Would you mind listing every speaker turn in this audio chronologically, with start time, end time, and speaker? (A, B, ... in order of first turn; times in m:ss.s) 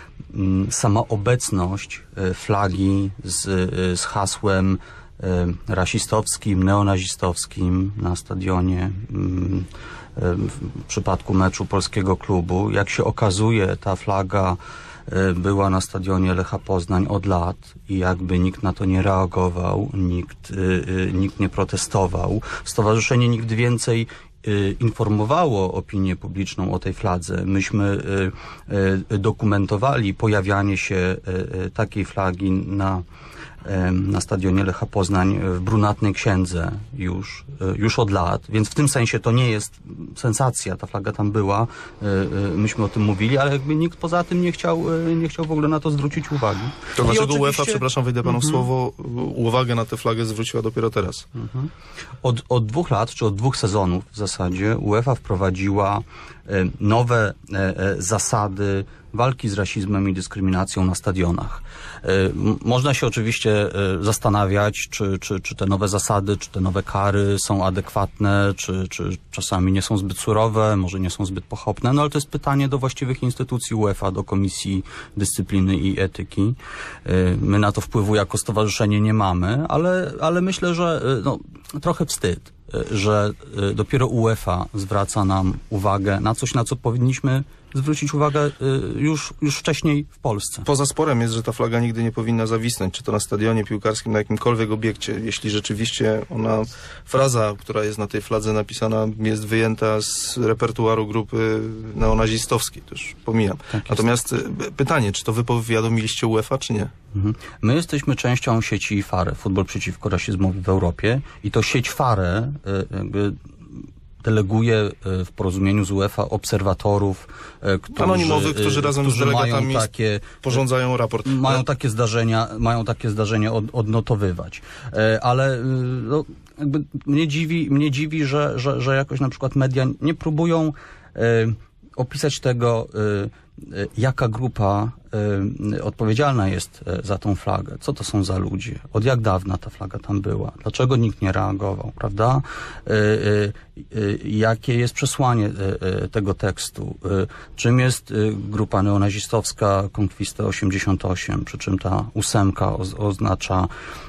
0:00.3-0:33.0 A
0:33.6-0:48.6 A
0:46.9-0:51.3 B
0:51.4-0:51.7 A
0:52.2-1:30.7 A
1:30.6-1:46.9 B
1:43.7-1:44.0 A
1:47.1-1:53.4 A
1:54.2-2:00.6 A
1:57.9-1:59.9 B
2:00.4-2:01.6 B
2:01.2-2:33.7 A